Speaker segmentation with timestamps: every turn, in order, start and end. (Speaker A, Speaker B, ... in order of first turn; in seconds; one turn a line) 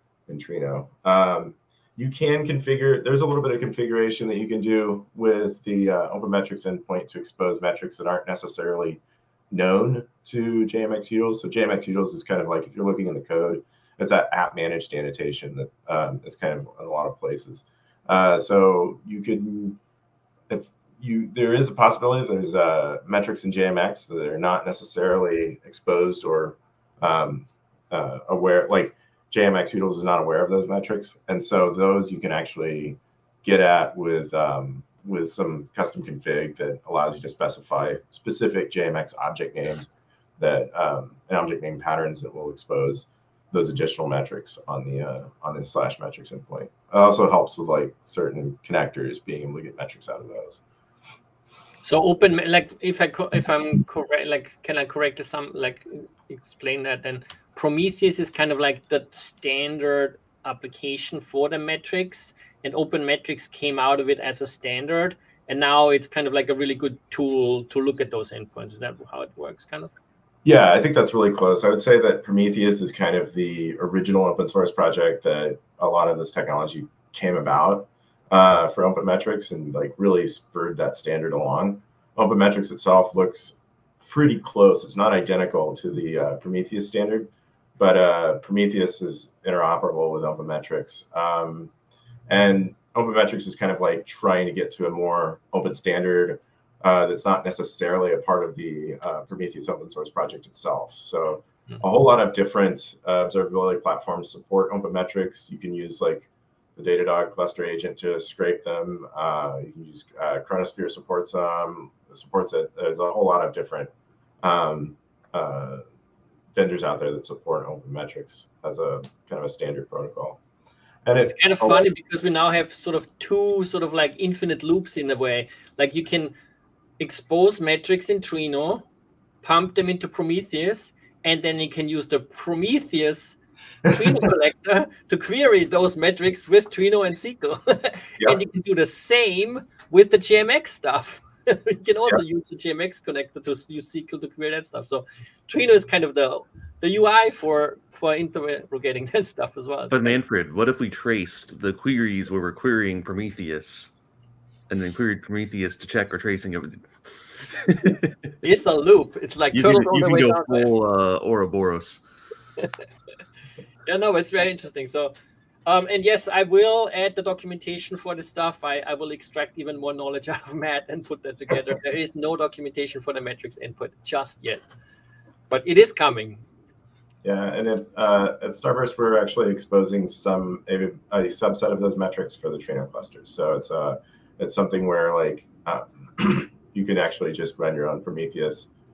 Speaker A: 0.3-9.0
Speaker A: 9.5-19.8
Speaker A: 20.5-50.6
Speaker B: 51.8-69.9
Speaker A: 70.4-91.7
Speaker A: 92.3-113.9
Speaker A: 114.4-115.8
Speaker A: 116.5-120.4
Speaker A: 121.0-121.8
Speaker B: 121.2-126.3
Speaker B: 127.0-128.8
Speaker B: 129.4-150.2
Speaker C: 149.9-153.9
Speaker C: 154.7-158.1
Speaker B: 158.4-160.7
Speaker C: 159.5-162.0
Speaker B: 163.9-165.1
Speaker B: 165.7-174.7
Speaker B: 175.5-176.4
Speaker A: 177.2-188.7